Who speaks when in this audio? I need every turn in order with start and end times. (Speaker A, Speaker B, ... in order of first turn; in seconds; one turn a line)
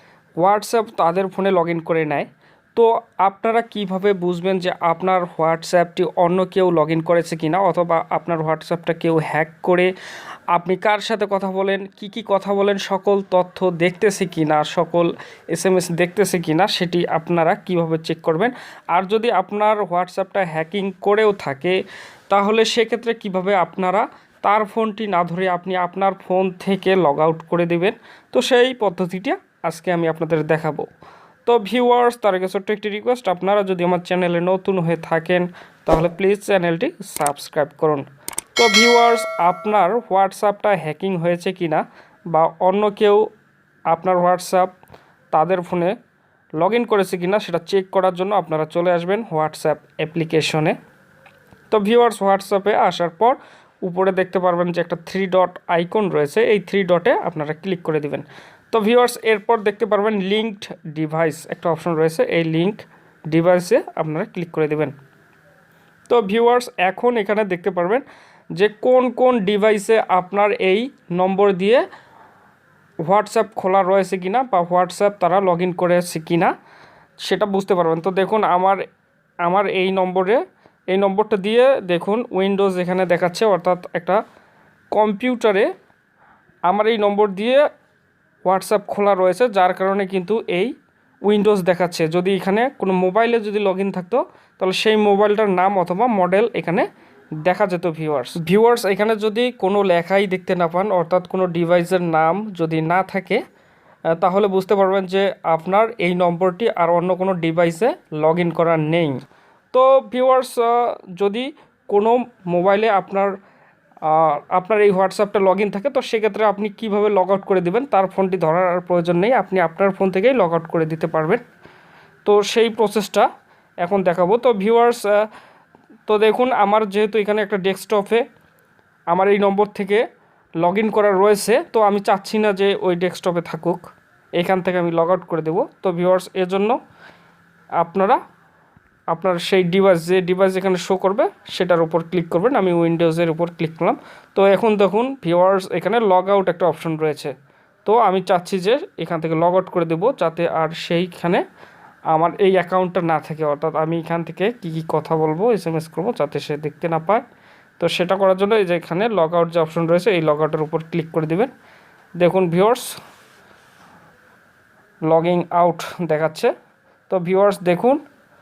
Speaker A: 0.4-9.9
Speaker A: 10.5-21.8
Speaker A: 22.3-30.9
Speaker A: 31.4-38.0
Speaker A: 38.6-43.3
Speaker A: 43.9-44.7
Speaker A: 45.3-45.9
Speaker A: 46.6-50.8
Speaker A: 51.7-64.9
Speaker A: 66.1-71.8
Speaker A: 73.0-76.5
Speaker A: 77.2-78.8
Speaker A: 79.4-84.2
Speaker A: 84.9-85.7
Speaker A: 86.7-87.6
Speaker A: 88.4-90.7
Speaker A: 91.2-96.9
Speaker A: 97.4-103.4
Speaker A: 104.1-109.2
Speaker A: 109.7-113.3
Speaker A: 114.0-121.4
Speaker A: 122.2-123.3
Speaker A: 123.8-125.2
Speaker A: 126.1-128.2
Speaker A: 129.1-130.0
Speaker A: 130.6-136.8
Speaker A: 137.8-138.2
Speaker A: 139.1-147.3
Speaker A: 147.8-151.4
Speaker A: 152.1-157.2
Speaker A: 157.8-161.5
Speaker A: 162.2-162.9
Speaker A: 165.1-166.5
Speaker A: 167.1-168.0